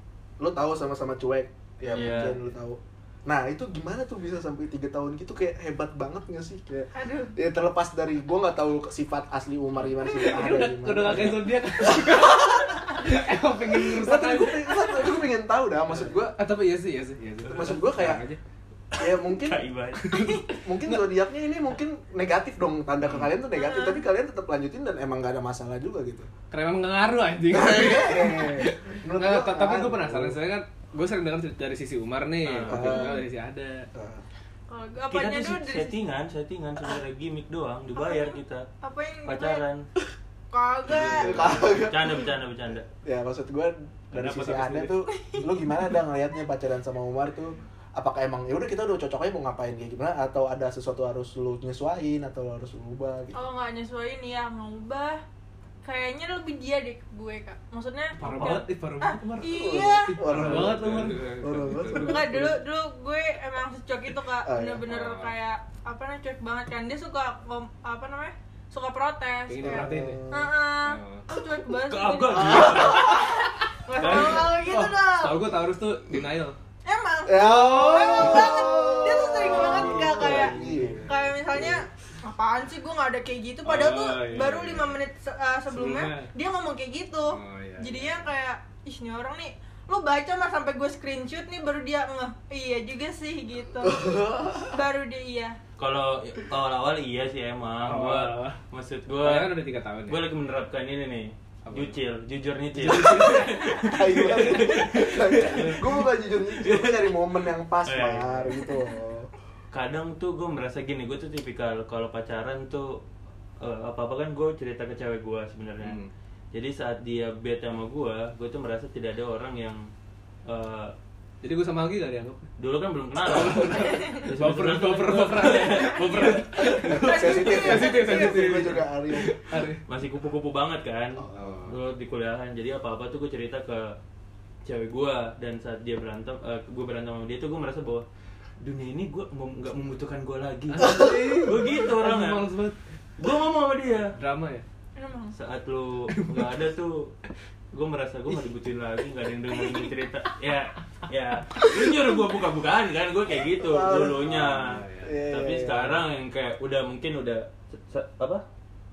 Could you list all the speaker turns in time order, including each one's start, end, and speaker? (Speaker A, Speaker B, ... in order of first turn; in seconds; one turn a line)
Speaker A: 0.4-12.8
Speaker B: 1.9-2.4
Speaker C: 1.9-2.3
Speaker C: 6.9-7.4
Speaker D: 10.0-15.1
Speaker A: 13.7-16.4
Speaker D: 16.4-18.4
Speaker B: 17.5-17.8
Speaker A: 17.5-18.2
Speaker A: 18.9-19.6
Speaker B: 18.9-20.4
Speaker D: 20.1-21.0
Speaker C: 20.1-20.4
Speaker A: 20.6-26.3
Speaker C: 23.5-24.0
Speaker D: 26.5-33.9
Speaker A: 27.5-30.4
Speaker B: 32.5-32.9
Speaker A: 32.7-33.2
Speaker C: 32.8-33.2
Speaker A: 33.9-34.2
Speaker C: 34.7-36.0
Speaker B: 35.1-38.7
Speaker C: 38.0-39.6
Speaker B: 39.3-39.9
Speaker C: 40.5-41.4
Speaker B: 40.9-42.9
Speaker A: 41.2-42.3
Speaker D: 41.4-41.7
Speaker A: 42.9-53.4
Speaker D: 44.1-44.9
Speaker C: 45.1-45.5
Speaker C: 53.3-55.2
Speaker C: 55.8-60.2
Speaker D: 58.2-62.5
Speaker B: 58.2-58.6
Speaker A: 59.5-62.6
Speaker B: 60.3-61.2
Speaker C: 62.0-75.5
Speaker A: 64.5-64.8
Speaker D: 64.9-65.3
Speaker D: 69.5-70.2
Speaker A: 69.6-70.5
Speaker D: 70.9-71.2
Speaker B: 71.8-73.4
Speaker A: 72.5-72.9
Speaker D: 74.0-76.6
Speaker B: 74.0-74.5
Speaker C: 76.8-94.2
Speaker A: 77.3-81.8
Speaker D: 78.1-78.4
Speaker D: 79.3-81.1
Speaker D: 83.7-85.0
Speaker D: 85.7-86.3
Speaker D: 87.3-88.2
Speaker A: 93.8-94.8
Speaker C: 94.7-95.6
Speaker B: 95.8-107.1
Speaker D: 97.8-98.6
Speaker D: 99.2-100.3
Speaker D: 101.7-102.0
Speaker D: 102.7-106.0
Speaker A: 103.8-109.3
Speaker B: 107.8-108.6
Speaker B: 109.7-113.0
Speaker B: 113.6-116.0
Speaker D: 115.8-116.1
Speaker B: 116.5-119.9
Speaker B: 120.5-120.9
Speaker D: 121.4-122.5
Speaker B: 122.6-127.3
Speaker D: 123.2-129.8
Speaker C: 123.8-124.2
Speaker A: 126.6-129.4
Speaker C: 126.8-128.4
Speaker B: 129.9-134.0
Speaker D: 131.3-131.8
Speaker B: 134.7-138.1
Speaker B: 138.6-142.5
Speaker D: 140.8-142.8
Speaker B: 143.2-144.2
Speaker D: 144.2-144.7
Speaker C: 145.0-145.3
Speaker B: 145.3-147.1
Speaker D: 146.1-146.6
Speaker B: 147.7-158.4
Speaker A: 153.6-154.4
Speaker D: 154.2-155.2
Speaker A: 155.0-156.0